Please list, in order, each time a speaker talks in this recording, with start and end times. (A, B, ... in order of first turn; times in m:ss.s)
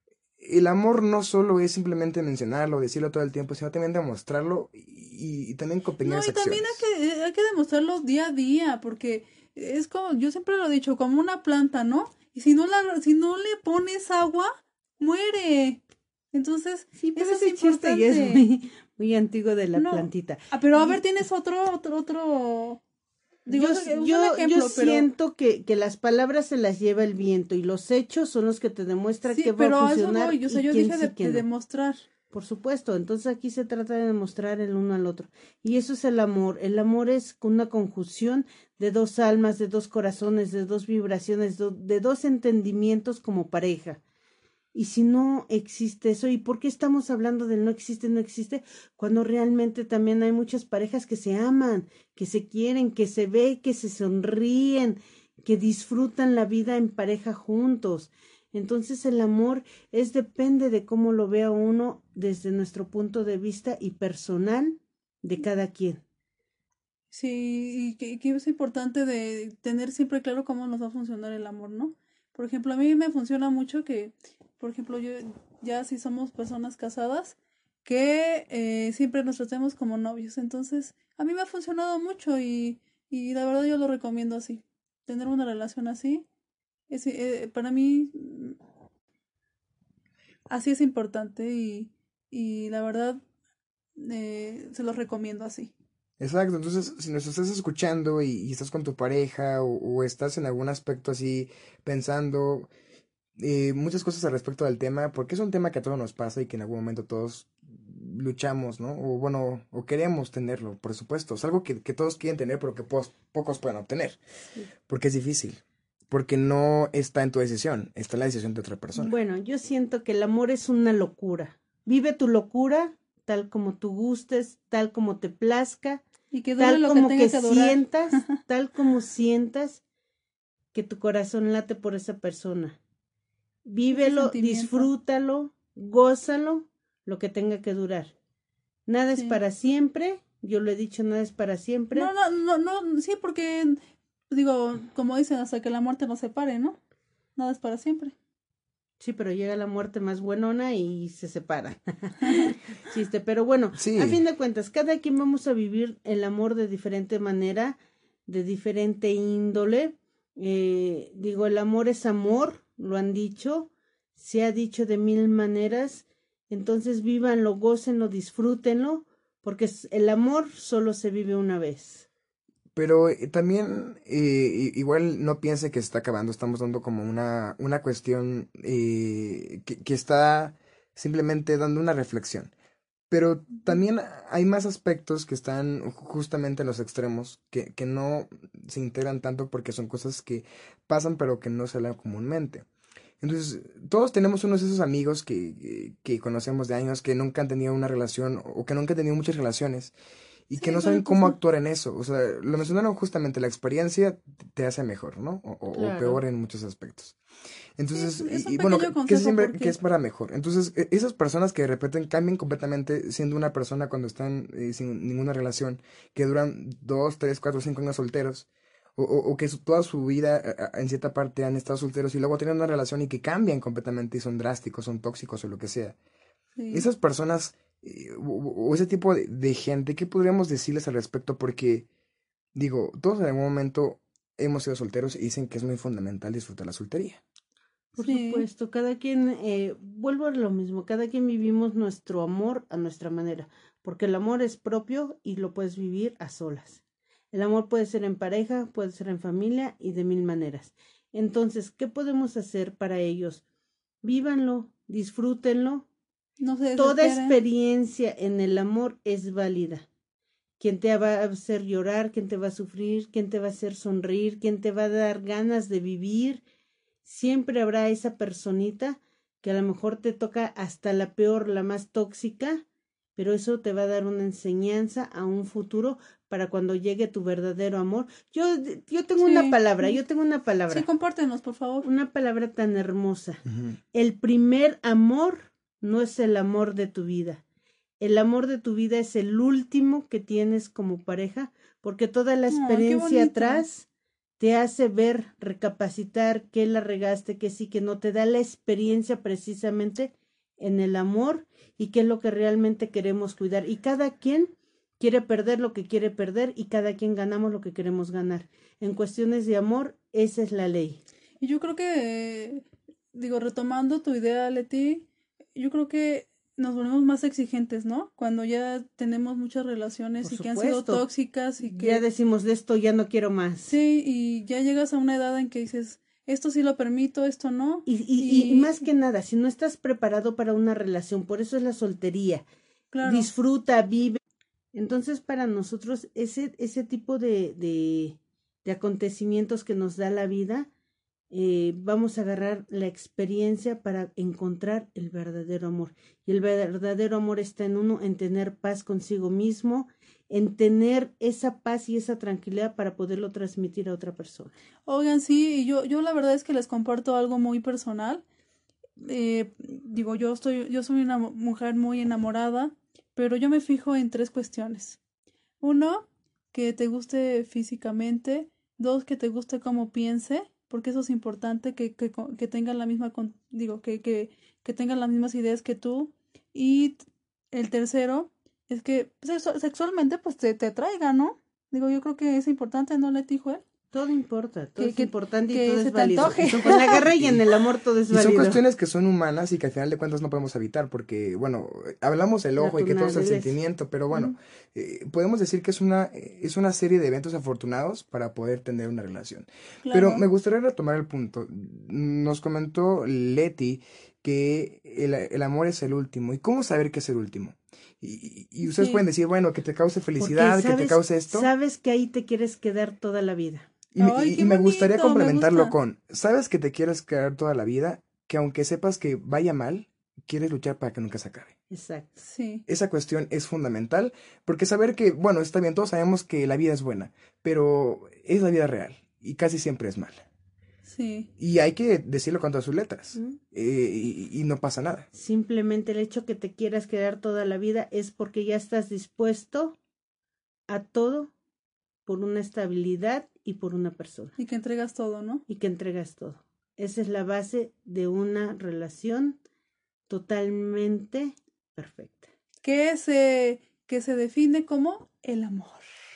0:00.4-0:06.8 A
0:06.0-0:15.8 B
0:16.3-0:18.4 B
0:17.0-0:21.0 C
0:19.8-0:22.8 B
0:23.5-0:25.1 B
0:23.5-0:31.4 C
0:29.3-0:32.0 B
0:32.3-0:44.0 C
0:44.7-1:06.0 C
1:07.1-1:26.2 B
1:26.9-1:28.6 B
1:30.5-1:33.2 B
1:34.0-1:35.7 B
1:36.2-1:42.7 A
1:43.4-1:54.2 A
1:54.9-1:59.1 A
1:59.0-2:06.0 C
2:06.3-2:08.4 B
2:06.6-2:09.8 C
2:10.7-2:12.8 C
2:13.7-2:18.1 C
2:13.9-2:14.9 B
2:18.9-2:22.1 C
2:22.0-2:26.8 B
2:27.4-2:28.1 B
2:29.0-2:52.1 C
2:33.8-2:34.2 A
2:52.8-3:02.5 A
3:03.1-3:12.7 A
3:13.2-3:19.9 A
3:20.5-3:27.2 A
3:20.6-3:21.4 B
3:25.7-3:26.2 C
3:27.8-3:46.0 A
3:27.9-3:29.8 B
3:46.6-3:46.9 B
3:46.7-3:51.9 A
3:52.6-3:57.2 A
3:57.9-4:06.8 C
3:58.0-3:58.4 B
4:07.3-4:13.4 C
4:14.0-4:15.9 C
4:16.4-4:17.4 B
4:16.8-4:19.9 C
4:20.6-4:26.4 C
4:27.0-4:32.6 C
4:33.2-4:40.9 C
4:39.2-4:40.0 B
4:40.7-4:41.9 B
4:41.8-4:43.4 C
4:43.9-4:47.4 C
4:48.0-4:53.9 C
4:52.5-4:53.6 B
4:54.4-5:11.0 C
5:11.4-5:22.0 B
5:20.2-5:21.0 C
5:21.6-5:23.7 C
5:23.7-5:28.8 B
5:27.9-5:32.4 C
5:32.9-5:33.3 B
5:33.0-5:34.2 C
5:34.7-5:40.7 C
5:41.3-5:54.5 C
5:54.9-5:58.2 B
5:59.0-6:05.0 B
6:05.6-6:17.0 B
6:17.5-6:23.6 B
6:23.9-6:28.6 C
6:24.8-6:27.0 B
6:26.3-6:27.4 A
6:28.1-6:51.5 A
6:32.6-6:33.6 C
6:39.8-6:40.2 B
6:48.6-6:49.0 B
6:50.2-6:53.7 C
6:53.9-7:01.6 A
6:54.0-6:55.7 B
7:01.7-7:02.1 C
7:02.2-7:02.6 B
7:02.7-7:10.2 A
7:10.8-7:11.3 B
7:11.4-7:15.1 A
7:15.1-7:19.8 C
7:20.7-7:21.3 C
7:22.1-7:24.4 C
7:24.4-7:25.4 B
7:25.5-7:29.4 C
7:30.1-7:32.3 C
7:32.6-7:35.8 B